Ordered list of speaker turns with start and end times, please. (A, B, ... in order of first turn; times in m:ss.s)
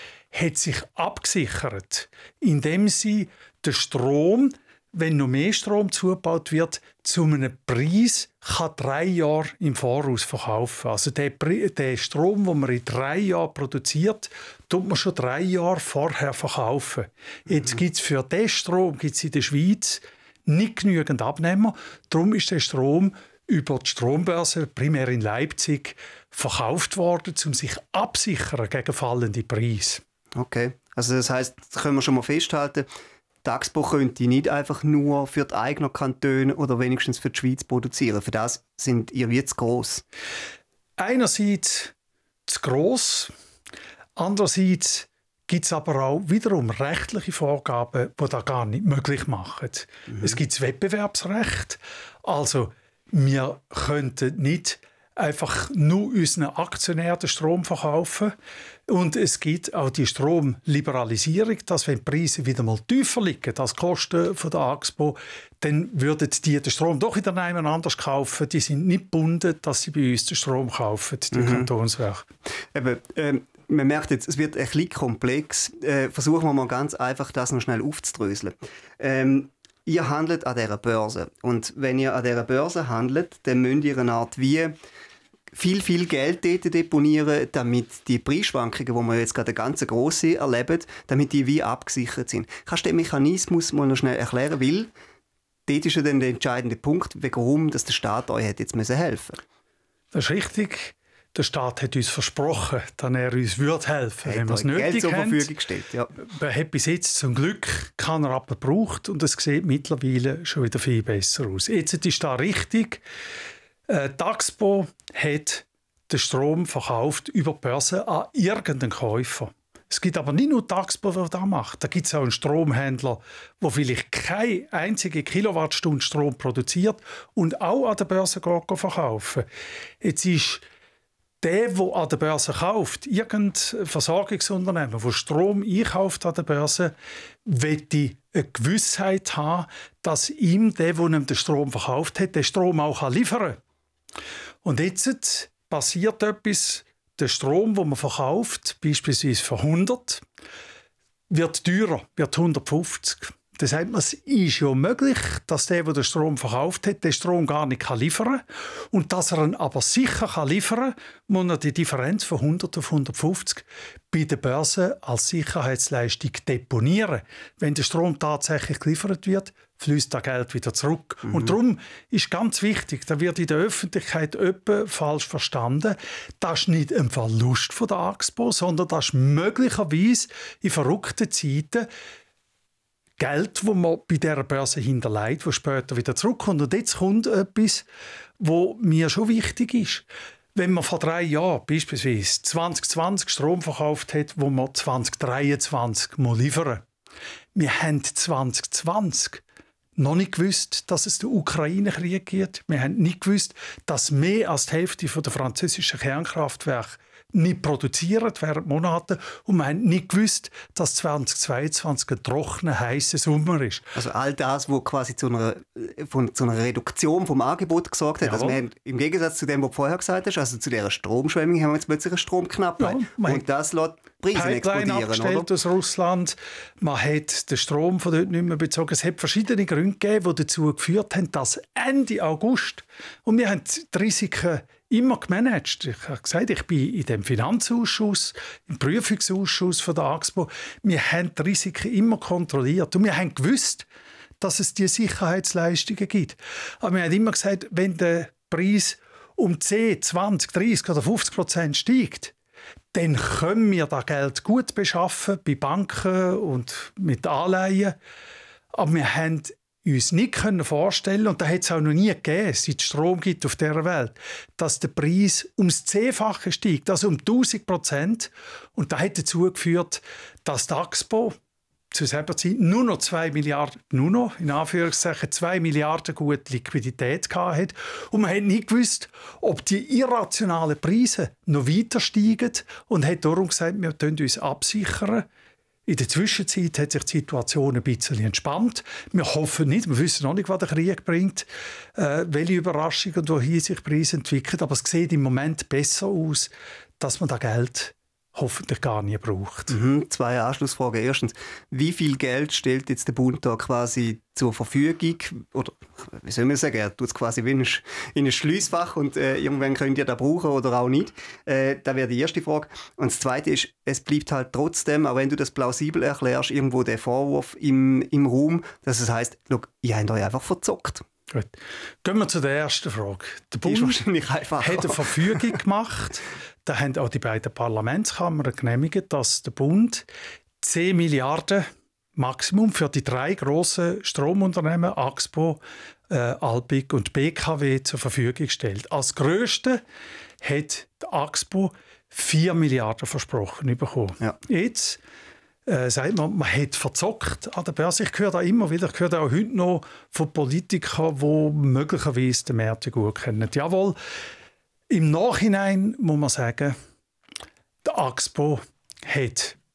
0:00.3-0:30.0 A
0:30.4-0:32.8 B
0:33.4-0:40.0 B
0:41.0-0:41.9 A
0:42.5-0:43.3 A
0:44.2-0:58.3 A
0:58.9-1:12.2 A
1:11.3-1:11.7 B
1:12.7-1:24.7 B
1:25.5-1:34.9 B
1:35.7-1:39.4 B
1:40.1-1:45.5 A
1:44.2-1:46.1 B
1:46.1-1:53.0 A
1:53.9-2:09.5 A
2:10.0-2:10.6 A
2:11.4-2:16.9 A
2:17.4-2:23.6 A
2:24.6-2:30.2 A
2:31.3-3:01.9 A
3:03.2-3:07.8 A
3:08.4-3:16.8 A
3:17.5-3:19.4 A
3:20.0-3:33.9 A
3:33.9-3:45.5 B
3:38.2-3:38.6 A
3:42.8-3:43.4 A
3:44.3-4:03.8 A
4:04.4-4:12.3 A
4:12.9-4:18.0 A
4:18.7-4:31.4 A
4:31.9-4:45.2 A
4:45.9-4:59.8 A
4:59.7-5:21.0 B
5:21.3-5:24.0 A
5:23.6-5:25.4 B
5:24.6-5:30.0 A
5:30.6-5:39.8 A
5:40.4-5:45.0 A
5:45.6-5:54.0 A
5:54.9-5:56.8 A
5:57.8-5:59.6 A